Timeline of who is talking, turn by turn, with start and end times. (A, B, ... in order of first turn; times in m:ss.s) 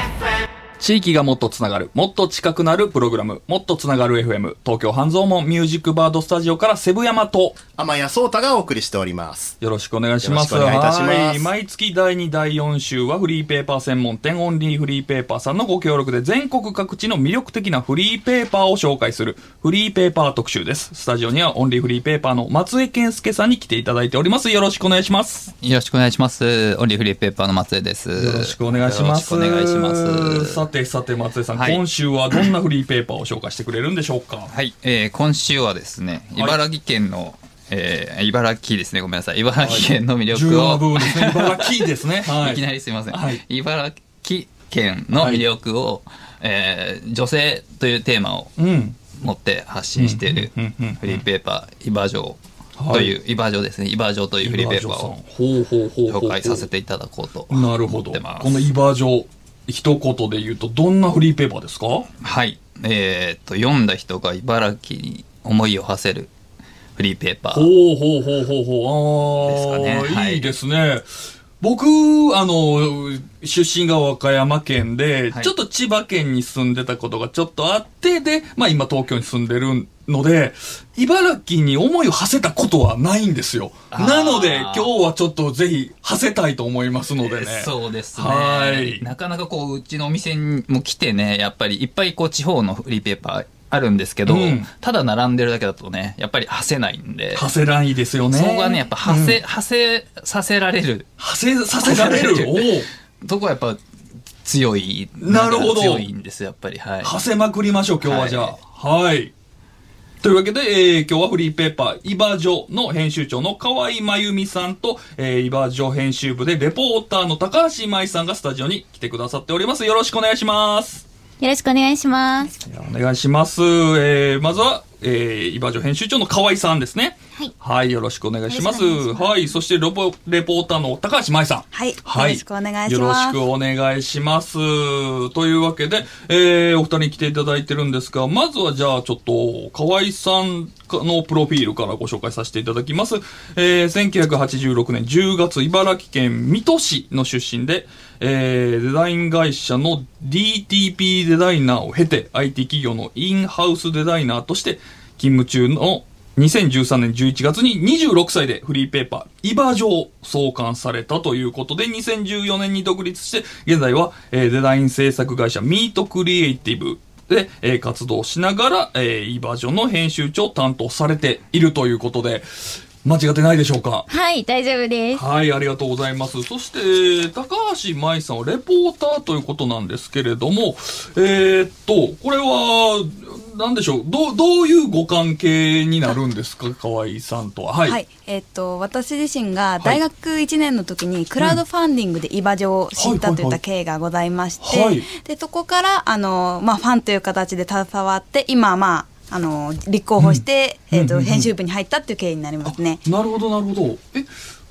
0:00.8-0:07.6 A
0:07.8-0:09.6 B
0:09.6-0:25.5 A
0:10.2-0:11.5 B
0:25.6-0:30.6 C
0:28.2-0:34.5 A
0:31.6-0:31.8 C
0:34.5-0:52.4 C
0:39.6-0:43.4 A
0:45.2-0:45.5 A
0:48.6-0:49.1 A
0:50.0-0:51.2 A
0:52.8-0:53.1 A
0:52.9-0:55.2 C
0:54.4-0:56.7 A
0:56.1-0:58.7 C
0:57.5-1:02.1 A
1:02.2-1:06.3 C
1:07.0-1:07.7 C
1:07.5-1:11.1 A
1:09.4-1:10.5 C
1:11.6-1:29.1 A
1:23.9-1:24.9 C
1:27.2-1:37.5 C
1:34.3-1:34.7 A
1:37.3-1:39.4 A
1:38.3-1:41.1 C
1:41.2-1:42.9 A
1:41.8-1:43.8 C
1:44.4-1:47.2 C
1:45.2-1:46.0 A
1:47.0-1:49.3 A
1:48.0-1:48.6 C
1:50.2-2:01.0 A
2:01.4-2:02.5 D
2:02.6-2:52.5 A
2:08.5-2:09.4 D
2:11.7-2:13.4 E
2:53.0-2:54.1 A
2:54.1-2:55.2 D
2:55.2-3:08.0 A
3:07.9-3:23.0 E
3:13.0-3:13.6 A
3:14.6-3:15.1 A
3:20.2-3:21.5 A
3:22.6-3:24.3 A